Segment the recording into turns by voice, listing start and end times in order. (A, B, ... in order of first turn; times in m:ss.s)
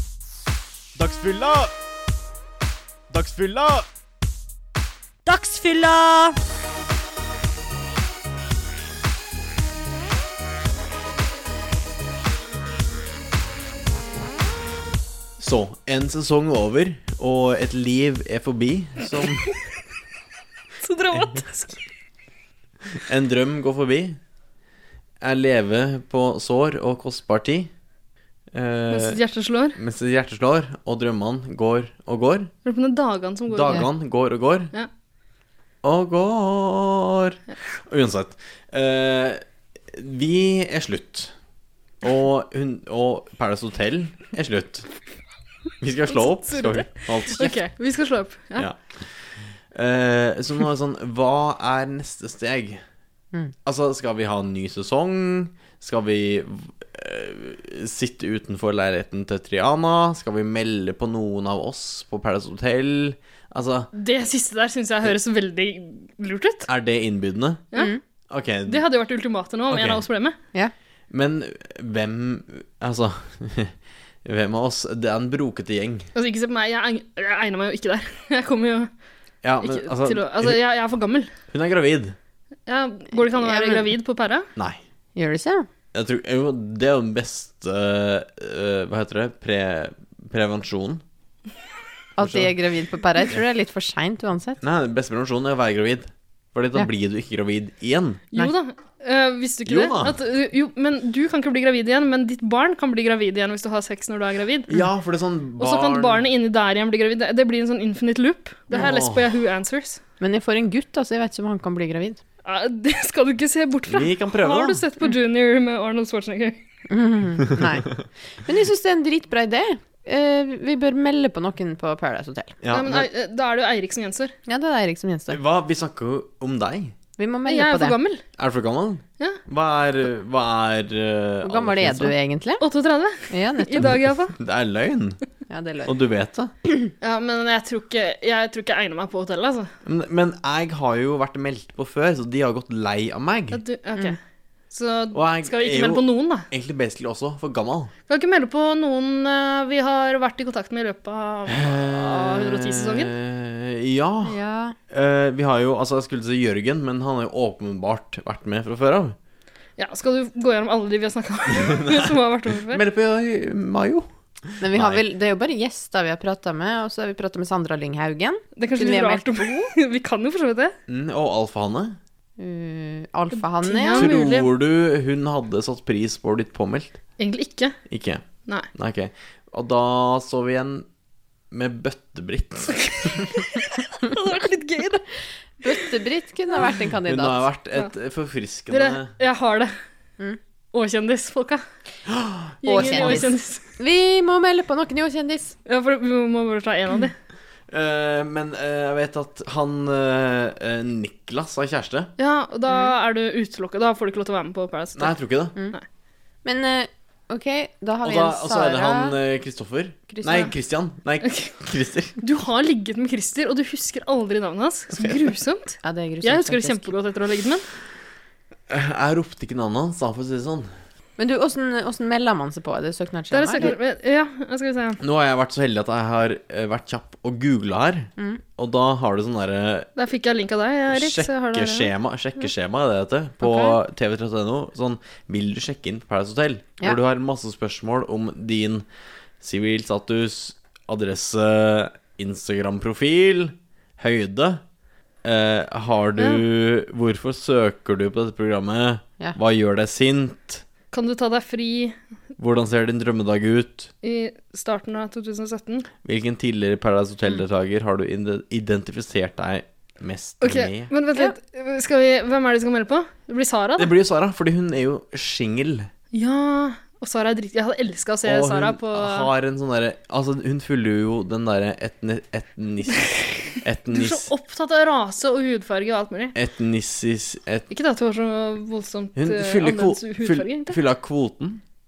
0:00.9-0:01.7 A
0:03.1-0:03.8 A
0:15.4-0:19.5 A
0:20.8-0:21.8 B
0:23.1-0:24.2 A
0:25.2-0:27.7 A
0:28.5-0:29.2 A
0:28.9-0:29.8 B
0:29.8-0:32.5 A
0:32.6-0:33.8 B
0:33.5-0:34.7 A
0:35.8-0:41.3 A
0:42.0-0:44.8 A
0:45.8-0:47.6 A
0:46.1-0:48.7 B
0:48.6-0:49.1 A
0:49.7-0:52.8 A
0:53.6-1:03.9 A
1:03.9-1:06.7 B
1:06.6-1:07.6 A
1:08.3-1:08.8 A
1:08.7-1:10.4 B
1:09.7-1:10.0 A
1:11.1-1:13.7 A
1:14.2-1:16.1 A
1:16.1-1:18.9 B
1:19.4-1:20.6 A
1:19.6-1:21.3 B
1:21.5-1:22.2 A
1:22.7-1:24.5 B
1:23.2-1:23.9 C
1:25.1-1:25.7 C
1:25.9-1:31.0 A
1:32.2-1:34.6 C
1:32.2-1:32.5 A
1:34.6-1:38.2 A
1:38.3-1:44.7 B
1:39.7-1:40.2 A
1:44.7-1:46.2 A
1:45.6-1:50.0 B
1:48.7-1:49.3 A
1:50.2-1:52.2 C
1:52.4-1:56.6 B
1:53.9-1:54.8 A
1:56.9-2:02.6 C
2:02.6-2:03.1 A
2:02.7-2:04.3 B
2:04.5-2:05.4 C
2:05.3-2:06.9 A
2:07.2-2:08.0 C
2:07.4-2:08.2 B
2:08.4-2:12.2 A
2:11.4-2:12.6 C
2:12.6-2:14.3 B
2:13.3-2:13.9 C
2:13.8-2:15.2 A
2:15.5-2:15.9 C
2:15.8-2:16.5 A
2:17.0-2:19.7 B
2:19.8-2:23.6 A
2:23.5-2:24.2 B
2:24.7-2:26.5 B
2:25.1-2:27.9 A
2:28.1-2:33.1 B
2:31.5-2:39.2 A
2:34.2-2:34.8 C
2:39.8-2:42.8 B
2:41.7-2:42.1 A
2:42.7-2:45.0 A
2:44.6-2:49.7 C
2:48.6-2:50.7 B
2:50.9-2:52.0 A
2:52.4-2:54.1 C
2:53.6-2:54.5 B
2:53.9-2:57.0 A
2:57.2-2:57.7 B
2:57.9-3:00.8 A
3:01.5-3:03.3 A
3:04.0-3:05.0 B
3:05.6-3:07.4 C
3:07.0-3:09.1 A
3:08.7-3:09.7 B
3:10.7-3:11.6 B
3:12.1-3:13.2 A
3:12.6-3:13.6 B
3:12.6-3:15.6 C
3:15.6-3:17.1 B
3:17.7-3:22.1 A
3:22.2-3:25.1 B
3:25.0-3:25.6 A
3:26.4-3:29.2 C
3:28.0-3:32.2 A
3:30.1-3:30.5 C
3:31.2-3:31.5 B
3:32.2-3:37.6 B
3:35.8-3:36.9 C
3:38.7-3:40.7 A
3:41.2-3:43.7 C
3:43.3-3:45.0 B
3:45.0-3:49.9 A
3:50.0-3:51.9 B
3:50.9-3:58.8 A
3:53.4-3:53.7 C
3:59.4-4:04.6 A
4:05.2-4:10.6 A
4:06.2-4:06.4 B
4:10.9-4:11.9 B
4:12.4-4:13.9 A
4:14.0-4:15.9 B
4:16.0-4:20.9 A
4:20.4-4:23.9 B
4:23.8-4:25.9 A
4:26.1-4:29.3 B
4:28.2-4:34.3 A
4:33.9-4:36.3 B
4:36.3-4:37.7 A
4:37.7-4:40.8 B
4:39.2-4:41.6 A